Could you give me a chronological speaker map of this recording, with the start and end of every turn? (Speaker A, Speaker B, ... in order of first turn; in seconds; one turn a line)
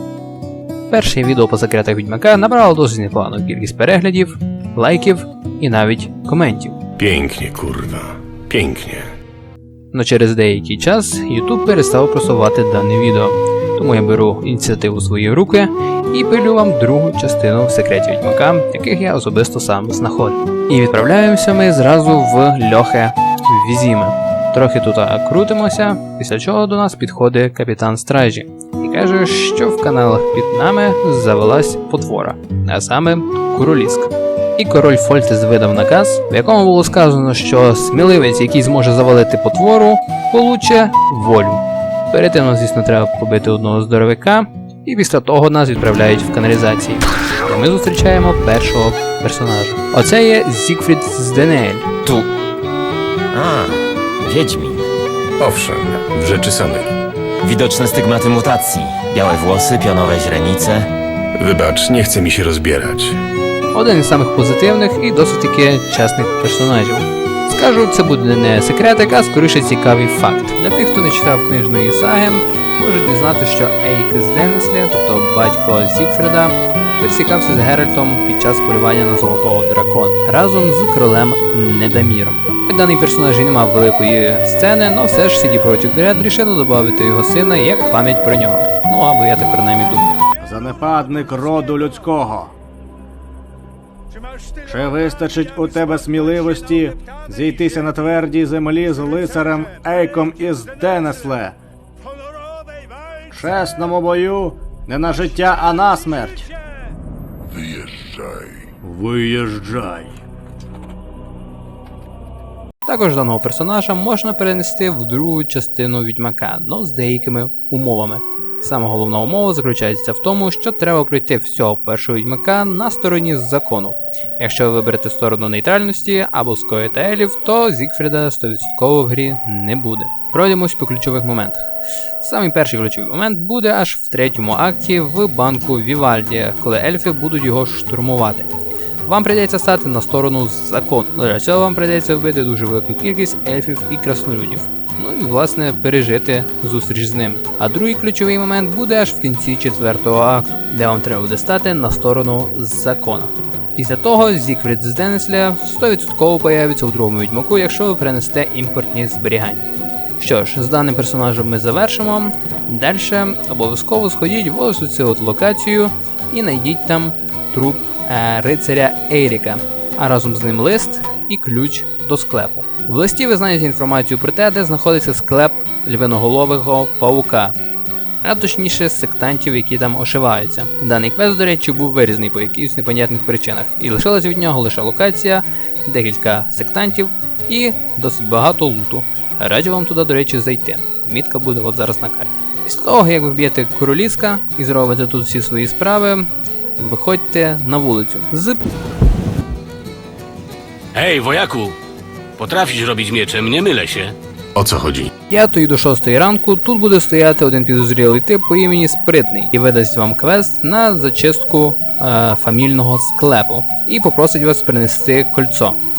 Speaker A: 0.9-6.8
Speaker B: 7.0-9.1
Speaker A: 9.9-51.9
Speaker C: 53.3-54.9
Speaker B: 55.4-56.9
Speaker C: 57.4-60.9
Speaker B: 61.4-63.2
Speaker A: 63.7-90.1
Speaker D: 90.4-92.5
Speaker D: 94.6-101.5
Speaker D: 103.3-106.5
Speaker D: 108.8-110.1
Speaker A: 112.8-138.5
Speaker A: 139.0-177.6
Speaker A: 178.2-198.6
Speaker E: 200.9-201.8
Speaker E: 202.4-204.2
Speaker B: 204.6-205.1
Speaker A: 205.3-215.8